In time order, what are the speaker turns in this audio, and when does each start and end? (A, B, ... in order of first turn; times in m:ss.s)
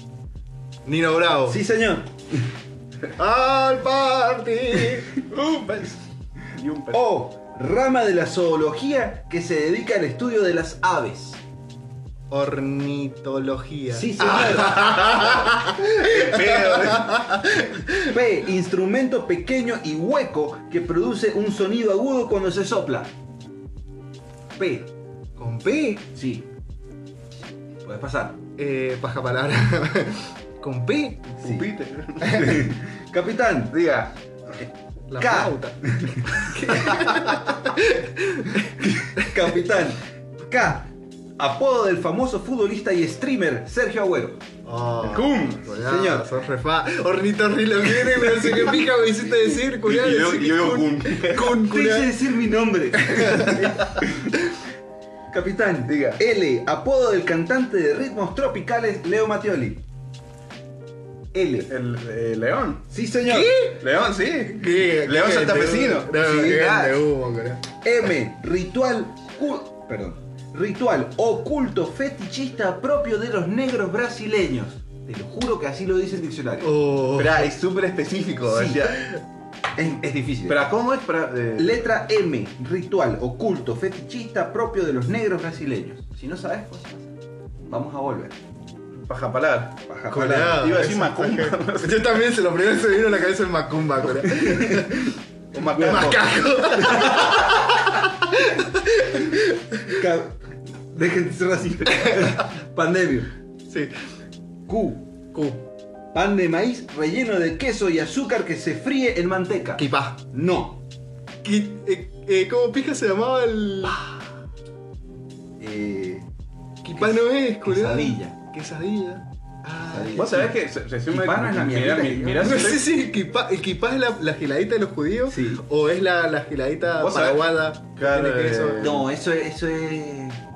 0:00.8-0:01.6 A
0:01.5-0:02.5 B
0:03.2-0:05.1 A
0:05.2-0:06.0 C
0:06.5-0:07.0 C
0:06.9-0:11.4 B
0:12.3-0:18.1 A
0:13.9-0:15.4 B
0:14.8-0:17.3 C
0:18.0-0:23.1 B
0:24.6-0:24.9 B
0:25.4-0:26.0 A
0:26.1-0:26.4 B
0:27.8-0:28.4 B
0:28.6-0:31.6 A
0:31.4-0:32.8 C
0:32.2-0:33.8 B
0:33.7-0:34.1 C
0:34.6-0:37.2 B
0:35.1-0:35.8 A
0:36.4-0:38.7 A
0:38.8-0:44.4 B
0:44.6-0:52.1 A
0:45.0-0:45.7 C
0:45.8-0:46.3 B
0:49.8-0:51.6 C
0:51.3-0:54.1 B
0:53.1-0:53.7 A
0:55.3-0:59.8 B
0:55.9-0:56.2 C
1:01.3-1:01.7 B
1:01.7-1:02.8 C
1:02.9-1:03.6 B
1:03.2-1:03.8 A
1:03.8-1:06.5 C
1:04.4-1:07.6 A
1:05.8-1:07.0 B
1:07.8-1:16.8 B
1:16.6-1:17.5 A
1:17.1-1:19.1 C
1:18.4-1:19.0 B
1:19.8-1:20.6 B
1:20.5-1:21.8 C
1:21.6-1:27.1 B
1:27.7-1:28.3 B
1:29.0-1:29.8 C
1:29.9-1:30.7 B
1:30.1-1:35.1 A
1:30.4-1:32.2 C
1:34.2-1:35.0 B
1:35.5-1:37.0 C
1:35.7-1:36.1 B
1:35.7-1:39.6 A
1:36.7-1:37.6 B
1:39.8-1:43.3 B
1:43.7-1:43.9 A
1:44.7-1:45.1 B
1:45.3-1:45.6 A
1:46.1-1:50.8 B
1:49.8-1:50.2 A
1:51.4-1:54.1 A
1:55.6-1:56.2 B
1:56.8-2:00.2 A
1:57.0-1:58.4 B
1:59.9-2:00.5 B
2:00.1-2:02.8 C
2:01.1-2:02.6 B
2:02.4-2:08.8 A
2:05.3-2:05.6 B
2:07.0-2:07.4 C
2:08.0-2:09.1 C
2:08.8-2:10.4 B